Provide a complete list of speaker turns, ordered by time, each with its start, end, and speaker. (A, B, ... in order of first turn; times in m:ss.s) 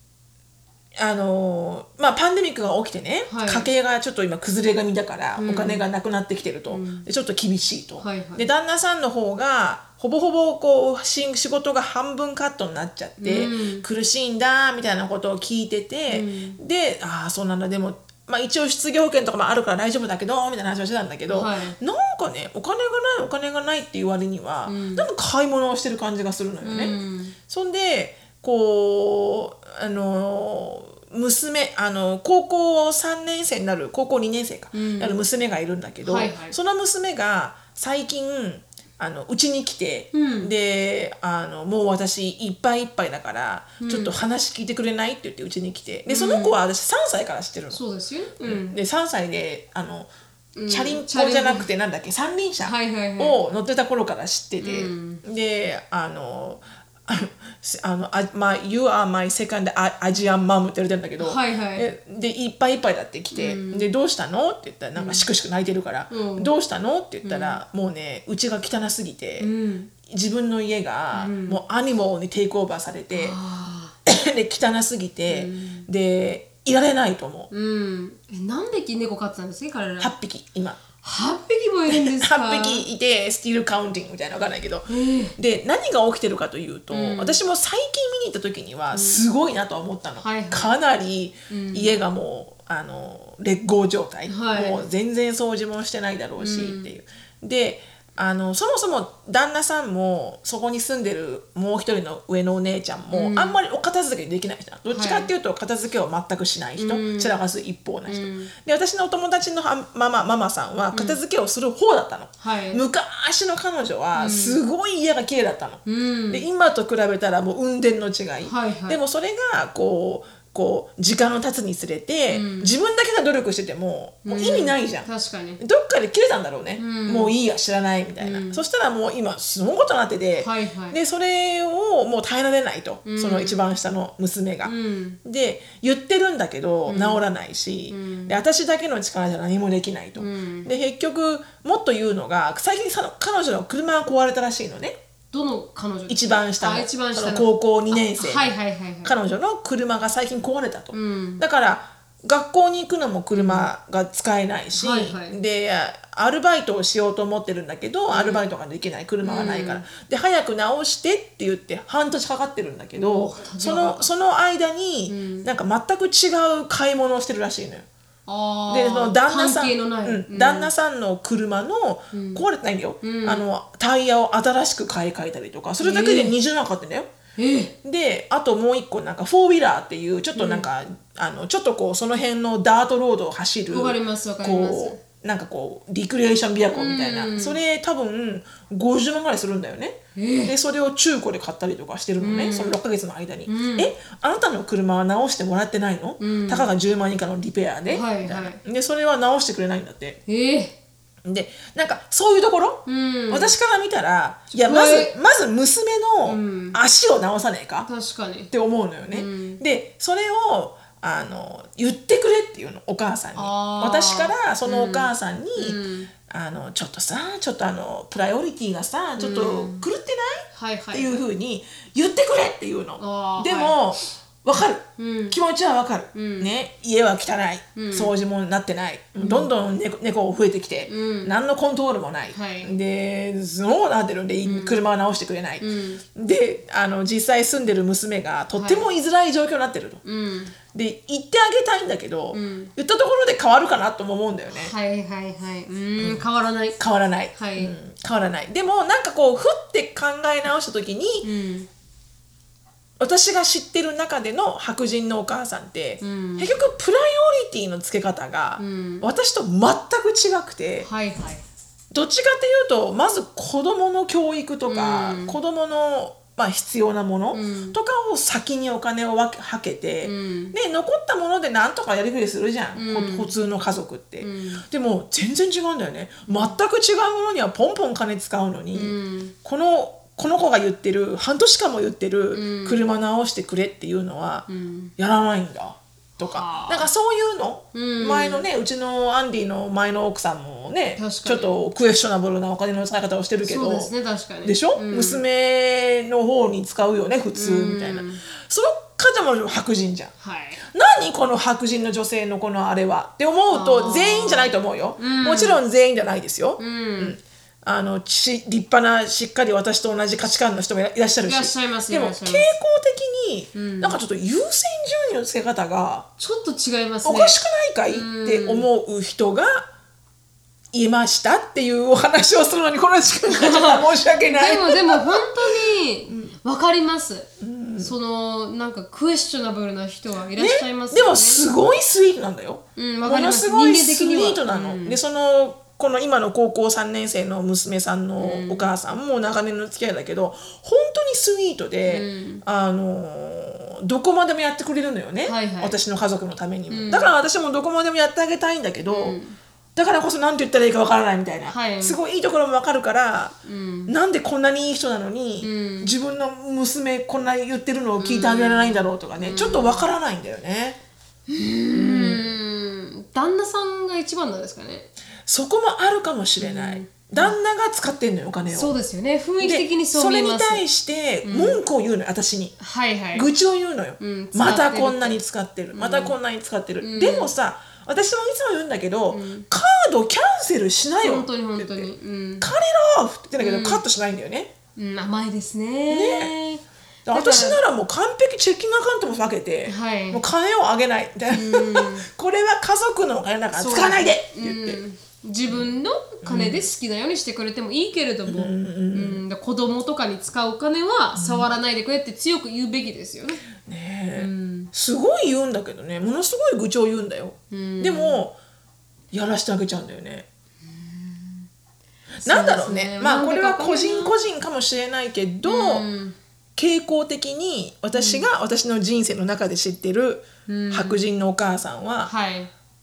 0:01.0-0:26.9 A
0:03.3-0:03.7 B
0:05.4-0:05.8 B
0:06.7-0:07.1 B
0:08.0-0:08.5 B
0:13.2-0:13.8 B
0:16.1-0:16.6 B
0:21.3-0:21.8 B
0:24.6-0:25.1 B
0:26.6-0:27.4 B
0:27.5-0:47.8 A
0:34.7-0:35.2 B
0:36.0-0:36.6 B
0:40.1-0:40.5 B
0:43.8-0:44.1 B
0:46.1-0:46.6 B
0:47.7-0:48.8 B
0:48.4-0:50.1 A
0:50.5-0:51.7 B
0:50.7-1:09.5 A
0:52.6-0:53.4 B
0:54.6-0:55.2 B
1:01.2-1:01.9 B
1:03.3-1:03.8 B
1:04.9-1:05.3 B
1:06.1-1:06.5 B
1:07.2-1:07.6 B
1:09.4-1:09.9 B
1:10.0-1:13.4 A
1:11.1-1:11.6 B
1:13.1-1:14.0 B
1:14.0-1:17.5 A
1:15.3-1:15.9 B
1:17.5-1:20.1 B
1:20.0-1:20.8 A
1:21.0-1:22.8 B
1:21.9-2:05.1 A
1:24.9-1:25.4 B
1:26.9-1:27.4 B
1:28.9-1:29.2 B
1:30.2-1:30.7 B
1:31.5-1:32.0 B
1:34.3-1:34.8 B
1:36.4-1:36.9 B
1:43.1-1:43.6 B
1:44.9-1:45.3 B
1:46.8-1:47.4 B
1:48.0-1:48.5 B
1:50.9-1:51.2 B
1:52.4-1:52.8 B
1:54.2-1:54.6 B
1:55.8-1:56.4 B
1:58.4-1:59.0 B
2:02.3-2:02.7 B
2:04.2-2:05.6 B
2:05.6-2:14.7 A
2:06.8-2:07.3 B
2:08.2-2:08.6 B
2:10.4-2:11.0 B
2:13.0-2:13.6 B
2:14.6-2:15.2 B
2:15.2-2:25.0 A
2:16.8-2:17.2 B
2:17.9-2:18.4 B
2:20.2-2:20.7 B
2:25.3-2:29.2 B
2:26.1-2:28.5 A
2:29.0-2:47.9 A
2:30.9-2:31.4 B
2:33.3-2:33.7 B
2:34.7-2:35.4 B
2:38.1-2:38.4 B
2:39.2-2:39.8 B
2:43.0-2:44.1 B
2:45.1-2:45.5 B
2:48.3-2:50.7 B
2:48.7-2:57.1 A
2:52.1-2:52.4 B
2:53.0-2:53.4 B
2:55.8-2:56.3 B
2:57.4-2:57.7 B
2:57.8-3:20.2 A
3:00.4-3:00.7 B
3:03.7-3:05.0 B
3:06.7-3:07.6 B
3:10.1-3:10.5 B
3:12.2-3:12.8 B
3:13.4-3:13.9 B
3:16.2-3:16.7 B
3:17.9-3:18.6 B
3:20.3-3:20.8 B
3:21.2-3:27.9 A
3:22.8-3:23.5 B
3:24.6-3:25.1 B
3:26.2-3:26.8 B
3:27.9-3:28.5 B
3:28.5-4:00.0 A
3:29.1-3:29.6 B
3:33.3-3:36.1 B
3:39.2-3:39.8 B
3:40.5-3:41.2 B
3:43.0-3:43.8 B
3:45.0-3:45.4 B
3:46.1-3:46.5 B
3:47.8-3:48.1 B
3:49.2-3:49.5 B
3:50.9-3:51.3 B
3:52.3-3:52.8 B
3:54.4-3:54.8 B
3:55.6-3:56.0 B
3:58.5-3:58.9 B
4:00.0-4:00.5 B
4:00.7-4:04.7 A
4:02.3-4:02.7 B
4:04.5-4:06.8 B
4:06.8-4:11.3 A
4:07.4-4:07.7 B
4:11.2-4:11.7 B
4:13.0-4:20.9 A
4:16.0-4:16.5 B
4:18.6-4:19.0 B
4:20.8-4:21.4 B
4:21.9-4:53.9 A
4:24.7-4:25.4 B
4:27.3-4:27.8 B
4:30.0-4:30.5 B
4:32.7-4:33.3 B
4:34.2-4:34.6 B
4:36.3-4:36.6 B
4:38.7-4:39.3 B
4:42.3-4:42.8 B
4:44.5-4:44.9 B
4:46.2-4:46.9 B
4:47.7-4:48.5 B
4:51.0-4:51.6 B
4:53.4-4:55.2 B
4:54.4-5:00.1 A
4:57.3-4:58.2 B
5:00.2-5:00.6 B
5:00.6-5:16.1 A
5:03.5-5:05.6 B
5:06.6-5:07.2 B
5:11.2-5:12.5 B
5:13.5-5:14.0 B
5:16.2-5:17.4 B
5:17.0-5:19.7 A
5:17.9-5:18.7 B
5:20.7-5:26.3 A
5:23.3-5:31.4 B
5:27.4-5:27.9 A
5:30.4-5:49.2 A
5:32.8-5:35.0 B
5:38.2-5:38.7 B
5:41.9-5:42.4 B
5:45.2-5:45.8 B
5:46.7-5:47.1 B
5:48.9-5:49.4 B
5:49.8-5:53.4 A
5:51.5-5:52.0 B
5:53.4-5:53.9 B
5:53.9-6:00.8 A
5:55.4-5:55.9 B
5:58.0-5:59.9 B
6:01.3-6:04.9 B
6:01.7-6:02.3 A
6:05.3-6:08.8 A
6:06.4-6:07.3 B
6:08.5-6:10.6 B
6:09.4-6:12.5 A
6:11.2-6:11.6 B
6:12.6-6:13.3 B
6:13.1-6:24.5 A
6:14.0-6:15.2 B
6:15.7-6:16.2 B
6:16.8-6:17.3 B
6:19.1-6:19.5 B
6:21.0-6:22.5 B
6:23.4-6:23.8 B
6:24.8-6:27.6 B
6:25.9-6:26.3 A
6:27.0-6:34.8 A
6:29.6-6:30.2 B
6:31.3-6:32.1 B
6:33.5-6:43.4 B
6:35.5-6:36.7 A
6:38.2-6:39.2 A
6:41.2-6:41.5 A
6:43.6-6:48.4 A
6:44.2-6:44.7 B
6:47.5-6:48.2 B
6:49.1-6:50.3 A
6:50.7-6:51.4 B
6:52.2-6:55.8 A
6:52.2-6:54.1 B
6:55.4-6:56.2 B
6:56.6-7:02.1 A
6:58.0-6:58.3 B
7:00.5-7:01.0 B
7:02.0-7:02.5 B